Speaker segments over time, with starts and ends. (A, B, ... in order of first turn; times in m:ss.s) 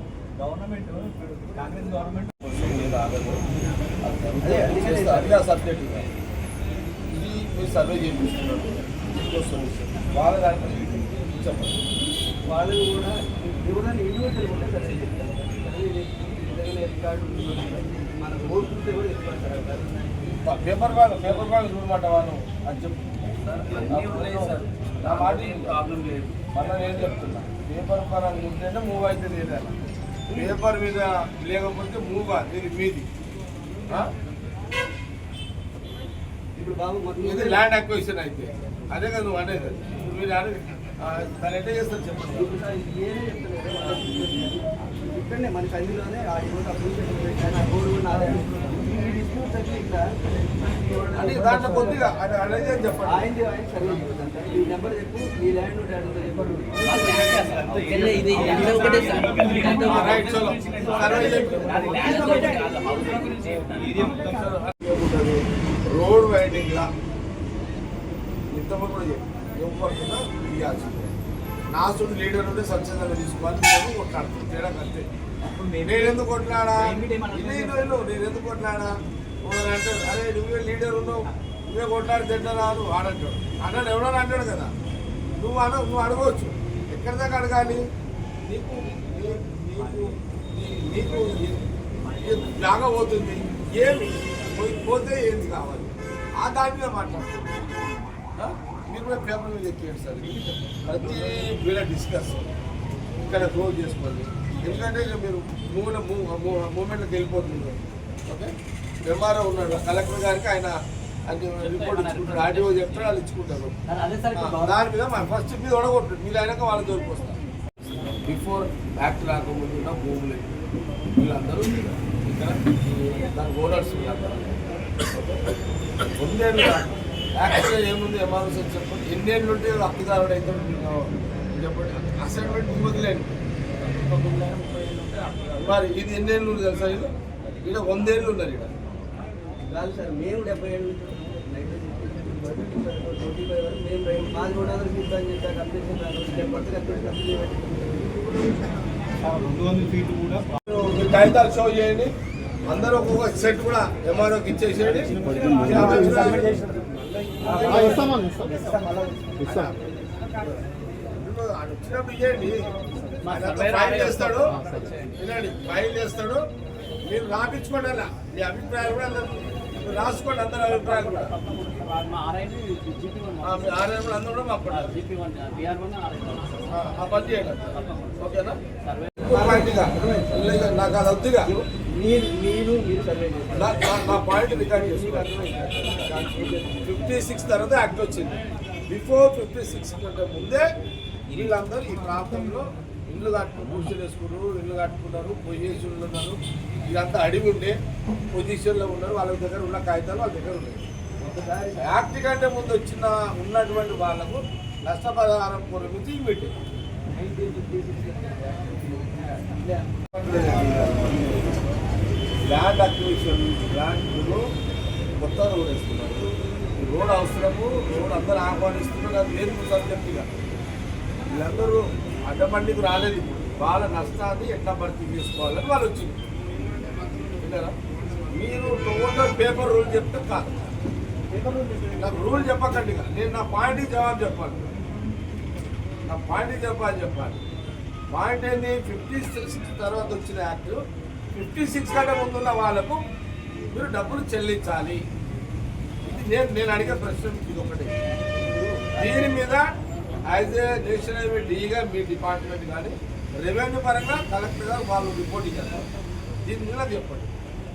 0:00.4-0:02.3 A
0:02.4-0:03.4 B
0:04.0-0:06.1 B
0:04.4-0:05.4 C
0:07.1-0:11.8 B
0:12.5-0:20.3 C
0:20.3-0:23.0 B
0:23.4-0:26.5 A
0:23.7-0:25.8 B
0:26.5-0:29.7 B
0:30.3-0:33.1 B
0:36.6-0:37.6 C
0:37.2-0:42.5 B
0:42.3-0:50.1 C
0:50.6-0:52.0 C
0:51.1-0:53.2 B
0:53.0-0:57.1 C
0:56.8-1:04.2 A
0:57.9-1:02.7 C
0:58.5-1:02.1 B
1:03.9-1:06.9 B
1:08.5-1:11.1 B
1:11.7-1:15.1 B
1:15.5-1:15.9 A
1:15.7-1:18.9 B
1:16.8-1:18.0 A
1:19.4-1:24.7 B
1:25.4-1:27.8 B
1:28.4-1:31.6 B
1:32.0-1:32.4 A
1:32.1-1:37.7 B
1:38.4-1:40.3 B
1:40.3-1:41.0 C
1:40.8-1:42.4 B
1:43.2-1:48.5 B
1:49.0-1:50.7 B
1:51.3-1:53.7 B
1:51.6-1:53.1 A
1:53.9-1:54.7 A
1:54.3-1:57.4 B
1:58.2-2:00.5 B
2:01.1-2:04.5 B
2:06.2-2:13.4 B
2:13.8-2:15.8 A
2:15.6-2:18.7 B
2:19.7-2:28.7 C
2:30.6-2:32.1 B
2:32.6-2:36.6 B
2:35.2-2:36.4 A
2:35.6-2:36.6 C
2:37.5-2:38.1 B
2:37.5-2:38.0 C
2:37.8-2:38.6 A
2:39.4-2:39.8 B
2:41.1-2:42.7 B
2:43.2-2:45.1 A
2:43.2-2:44.6 B
2:45.2-2:46.4 B
2:47.0-2:51.3 B
2:50.7-2:53.7 A
2:53.4-2:55.0 B
2:54.7-2:56.7 A
2:56.7-2:58.6 B
2:57.7-2:58.2 A
2:58.8-2:59.3 A
2:59.2-3:01.5 B
2:59.2-3:00.6 C
3:01.4-3:06.7 C
3:03.5-3:10.6 B
3:11.3-3:16.4 B
3:16.9-3:17.7 B
3:18.3-3:20.8 B
3:21.2-3:21.9 C
3:21.8-3:26.5 B
3:27.1-3:29.9 C
3:30.1-3:31.4 B
3:32.5-3:34.4 B
3:35.2-3:40.3 B
3:41.3-3:46.3 B
3:47.4-3:47.7 B
3:48.3-3:50.7 B
3:51.3-3:52.0 C
3:52.0-3:54.7 B
3:56.1-3:57.4 B
3:58.1-4:00.8 B
4:01.3-4:03.0 B
4:03.7-4:05.0 B
4:06.0-4:07.9 B
4:08.4-4:09.3 C
4:09.0-4:09.6 B
4:10.2-4:15.9 B
4:16.4-4:17.3 B